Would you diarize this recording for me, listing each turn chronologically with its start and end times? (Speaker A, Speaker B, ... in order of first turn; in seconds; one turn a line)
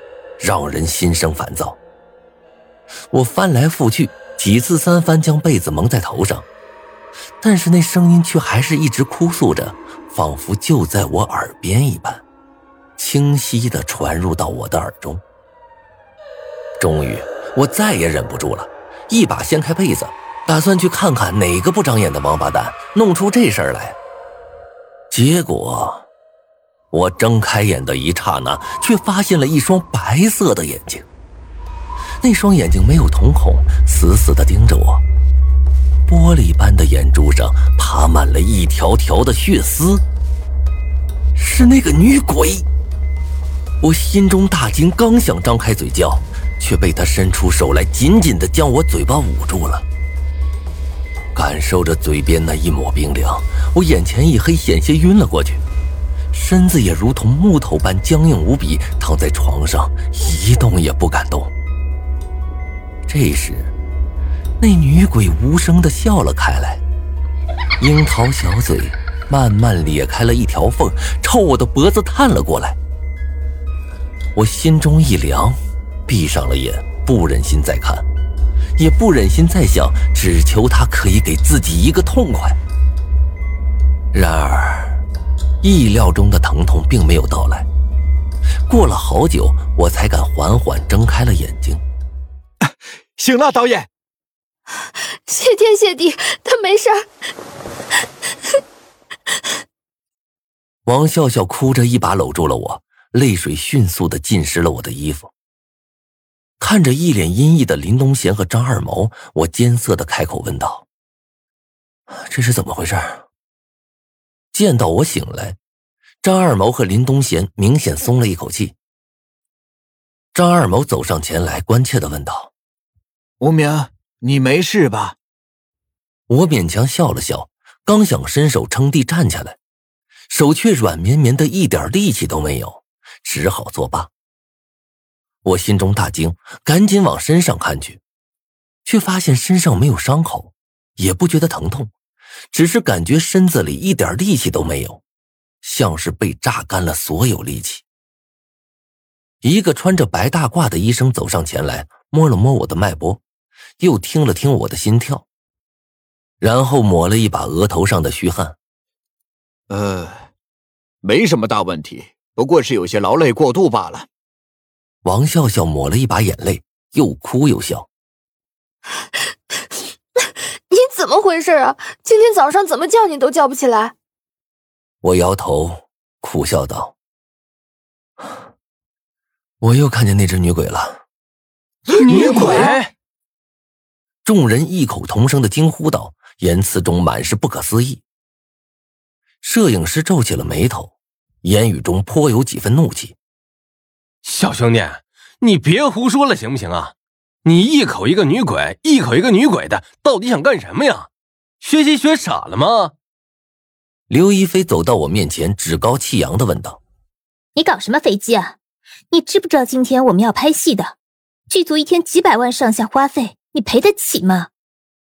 Speaker A: 0.4-1.8
Speaker A: 3.1-6.5
Speaker A: 7.4-12.2
Speaker A: 13.0-15.2
Speaker A: 16.8-24.0
Speaker A: 25.1-26.1
Speaker A: 26.9-31.1
Speaker A: 32.2-35.0
Speaker A: 36.1-40.0
Speaker A: 41.4-42.7
Speaker A: 43.8-49.9
Speaker A: 51.3-55.6
Speaker A: 56.3-61.5
Speaker A: 63.1-63.7
Speaker A: 64.6-66.8
Speaker A: 67.8-72.8
Speaker A: 74.4-78.1
Speaker A: 78.8-82.6
Speaker A: 84.1-85.0
Speaker A: 85.6-87.7
Speaker A: 88.7-91.8
Speaker B: 92.6-93.9
Speaker C: 95.3-97.0
Speaker A: 100.9-105.3
Speaker A: 106.6-110.9
Speaker A: 112.1-113.2
Speaker A: 114.5-115.6
Speaker A: 116.2-118.8
Speaker A: 120.3-122.5
Speaker B: 123.4-125.2
Speaker A: 126.3-129.6
Speaker A: 130.3-134.1
Speaker A: 135.4-138.0
Speaker A: 138.8-141.9
Speaker A: 142.5-145.0
Speaker A: 145.6-147.8
Speaker A: 149.4-153.2
Speaker A: 153.8-155.3
Speaker A: 156.4-158.6
Speaker B: 159.7-160.3
Speaker B: 161.0-164.1
Speaker A: 165.1-167.9
Speaker C: 170.7-173.9
Speaker A: 175.0-176.9
Speaker A: 179.6-181.0
Speaker B: 181.9-182.7
Speaker D: 182.0-182.9
Speaker C: 182.2-182.8
Speaker A: 184.2-188.0
Speaker A: 189.4-193.2
Speaker D: 194.2-196.9
Speaker D: 197.4-201.1
Speaker D: 201.6-202.9
Speaker A: 204.1-206.8
Speaker E: 207.6-208.6
Speaker E: 209.1-210.9
Speaker E: 211.5-214.5